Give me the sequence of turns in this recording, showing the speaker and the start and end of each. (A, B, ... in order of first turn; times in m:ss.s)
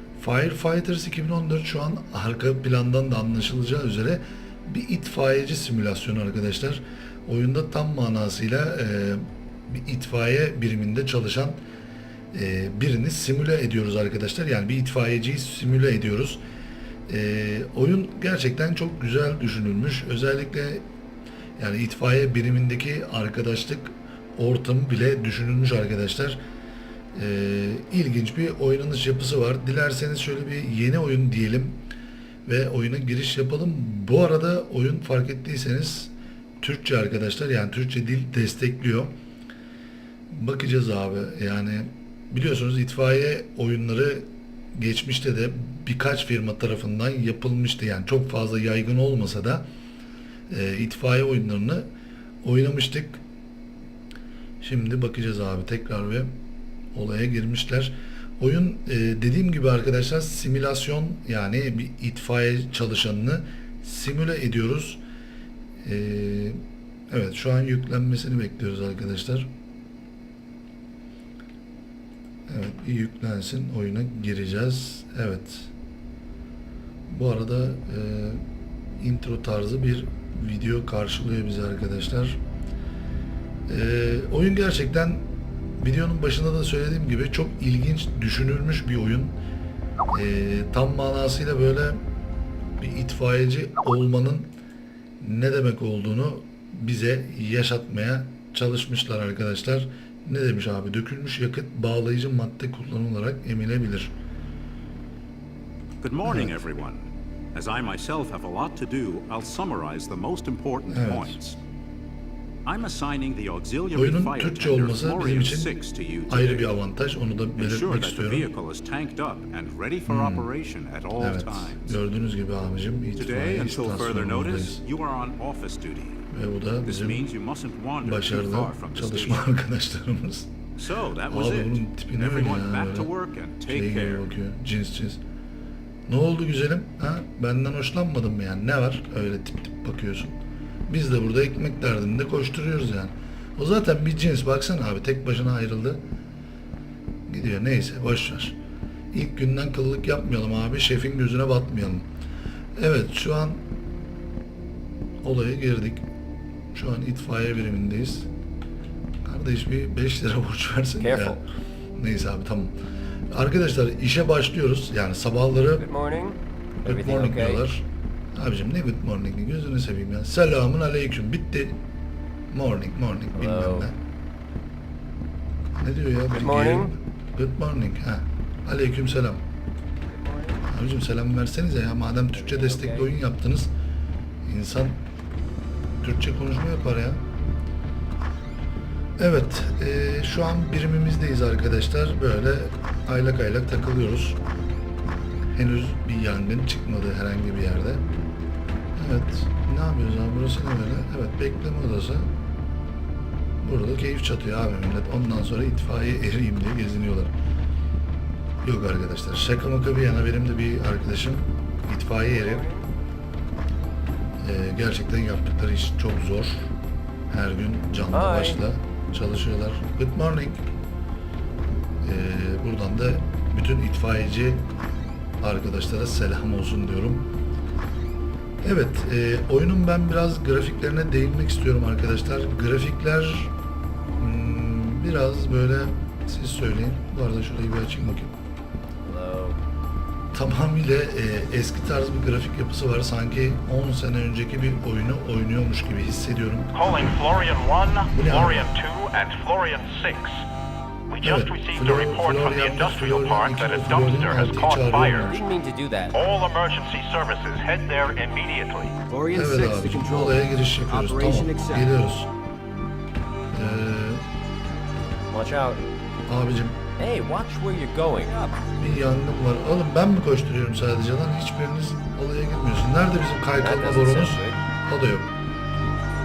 0:00.2-0:11.6 A
0:12.3-0:16.4 A
0:17.1-0:20.9 A
0:21.6-0:26.4 A
0:27.1-0:31.8 A
0:32.5-0:39.1 A
0:40.3-0:49.6 A
0:50.5-0:51.9 A
0:52.4-0:53.2 A
0:54.6-0:56.4 A
0:56.9-1:05.0 A
1:05.8-1:09.5 A
1:12.5-1:15.7 A
1:17.1-1:18.4 A
1:19.0-1:22.4 A
1:23.7-1:25.3 A
1:25.8-1:29.4 A
1:30.1-1:32.0 A
1:32.8-1:34.5 A
1:35.2-1:44.1 A
1:46.0-1:51.6 B
1:46.2-1:46.6 A
1:50.9-1:51.4 A
1:52.6-1:56.8 B
1:53.9-1:58.5 A
1:57.6-2:02.0 B
2:00.1-2:00.5 A
2:01.2-2:04.8 A
2:03.2-2:06.3 B
2:06.3-2:07.2 A
2:06.8-2:09.5 B
2:08.0-2:10.6 A
2:10.8-2:14.3 B
2:11.3-2:13.1 A
2:13.7-2:15.2 A
2:16.1-2:26.0 A
2:27.3-2:28.6 A
2:29.1-2:32.1 A
2:32.8-2:33.6 A
2:35.2-2:36.1 A
2:36.7-2:38.3 A
2:39.2-2:41.4 A
2:41.0-2:41.4 C
2:42.0-2:42.8 A
2:43.3-2:45.8 A
2:45.8-2:47.6 C
2:46.8-2:51.8 A
2:52.5-2:54.0 A
2:53.3-2:53.9 C
2:55.8-2:59.4 A
2:56.3-2:56.9 C
3:00.0-3:00.7 C
3:00.7-3:03.7 A
3:02.3-3:03.1 C
3:04.4-3:05.0 A
3:06.0-3:07.2 A
3:09.2-3:14.4 A
3:15.5-3:18.1 A
3:19.0-3:22.3 A
3:23.6-3:27.3 A
3:28.6-3:32.6 A
3:32.3-3:32.9 C
3:34.4-3:36.7 A
3:37.3-3:40.6 A
3:38.1-3:38.6 C
3:42.0-3:44.7 A
3:45.4-3:47.3 A
3:48.6-3:53.5 A
3:54.2-3:58.4 A
3:59.0-3:59.6 C
4:00.3-4:06.7 A
4:06.7-4:10.5 D
4:08.1-4:08.7 A
4:11.1-4:15.4 D
4:11.2-4:15.4 A
4:15.2-4:16.2 C
4:16.1-4:19.0 D
4:19.1-4:21.9 E
4:19.3-4:22.3 A
4:23.5-4:24.2 A
4:25.3-4:25.8 C
4:26.3-4:26.9 A
4:27.0-4:28.6 C
4:28.8-4:35.3 A
4:33.6-4:34.6 C